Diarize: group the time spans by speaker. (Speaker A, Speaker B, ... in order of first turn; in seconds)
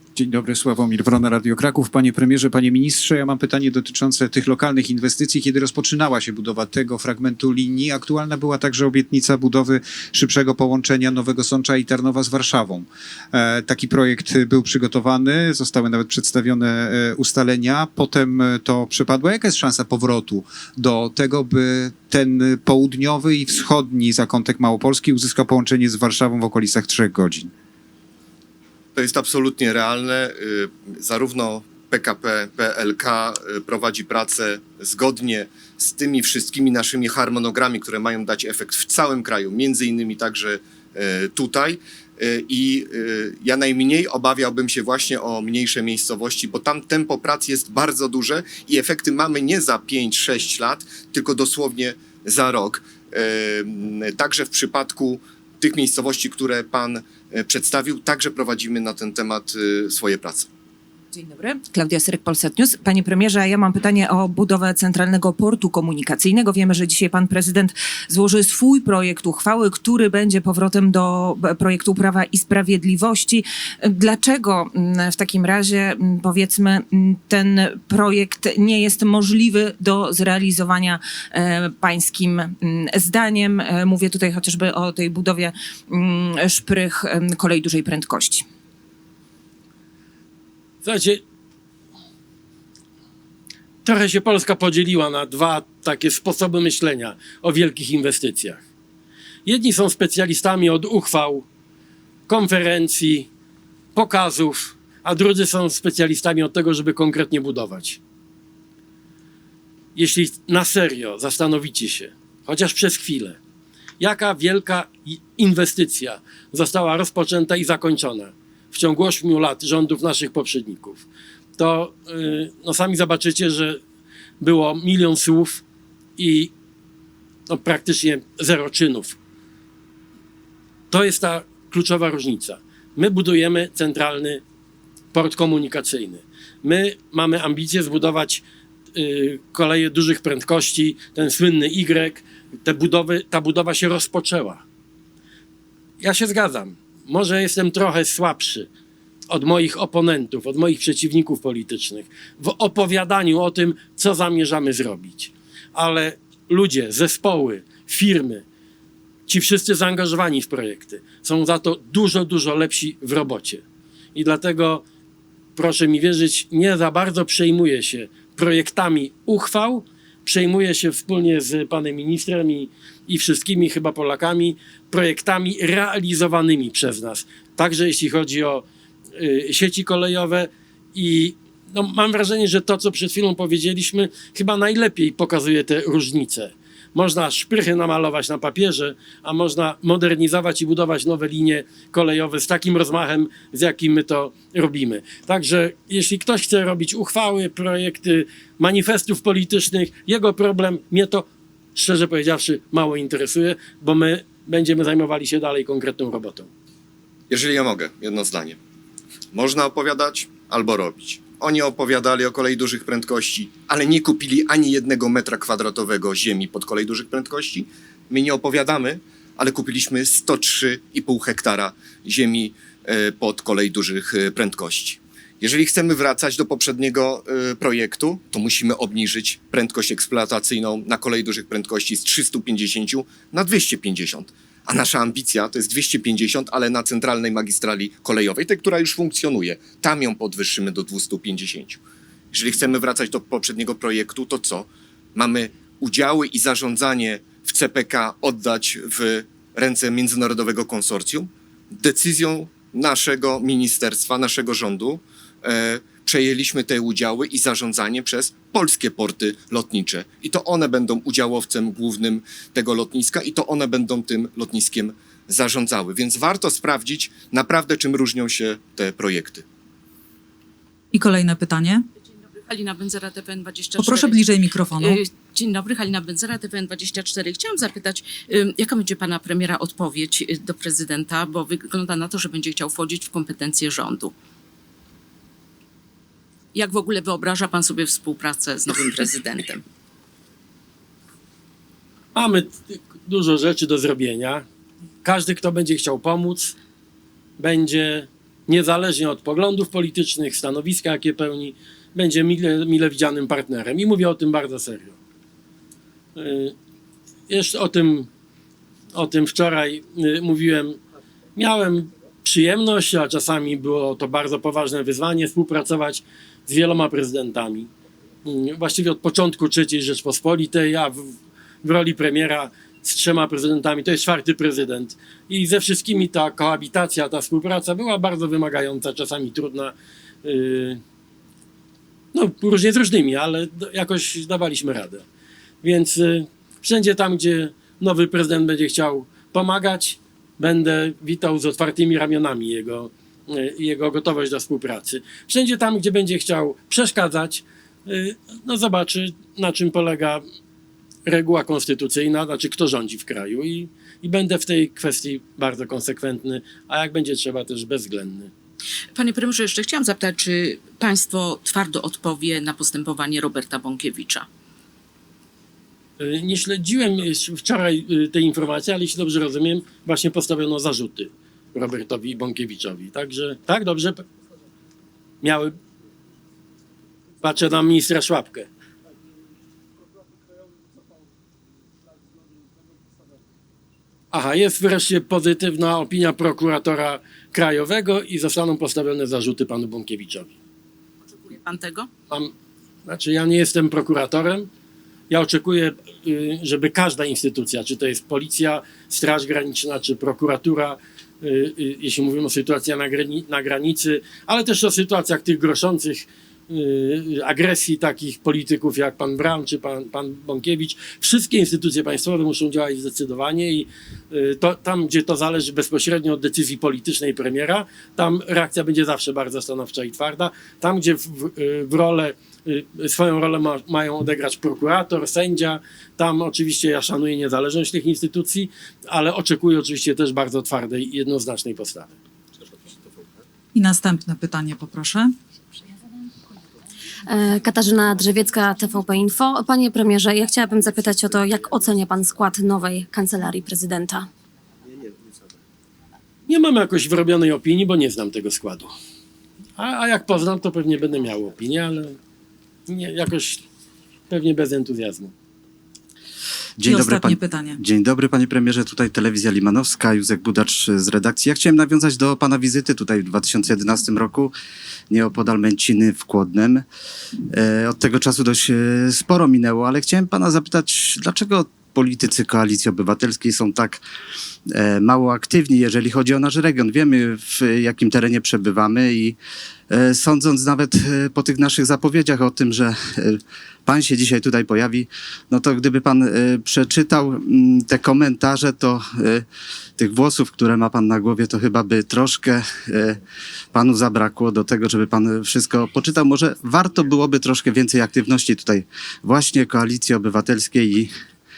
Speaker A: 0.1-27.5
Speaker B: 28.9-60.5, 207.3-208.6, 209.3-241.8, 242.3-269.4
Speaker C: 61.1-88.4
Speaker D: 90.8-91.2, 93.8-98.6, 99.4-101.5, 102.3-103.3, 103.9-108.0, 109.9-113.4, 114.0-121.0, 121.6-123.8, 124.4-125.6, 126.2-126.5, 127.5-129.2, 130.9-134.4, 135.1-138.4, 138.9-144.6, 146.0-148.7, 149.3-158.4, 159.3-163.6, 164.1-164.8, 165.6-178.6, 179.2-206.5, 292.1-294.4, 295.0-296.5, 297.4-305.0, 306.1-306.5, 307.3-308.1, 308.9-310.8, 311.4-317.7, 318.2-330.8, 332.1-335.0, 335.6-350.2, 351.1-358.3, 366.0-374.1, 375.2-375.6, 377.2-378.5, 384.1-390.3, 392.9-394.5, 395.1-431.9, 446.3-448.7, 449.6-452.0, 452.7-453.4, 454.1-455.1
Speaker E: 270.9-271.8, 273.8-275.0, 433.5-435.1, 456.6-457.6
Speaker F: 272.0-284.1, 286.5-289.6, 358.9-364.2, 391.0-391.9
Speaker G: 437.1-444.1
Speaker H: 456.6-464.3, 464.9-466.6, 467.3-473.8, 474.5-479.2, 479.7-489.2, 489.8-493.0, 493.5-500.9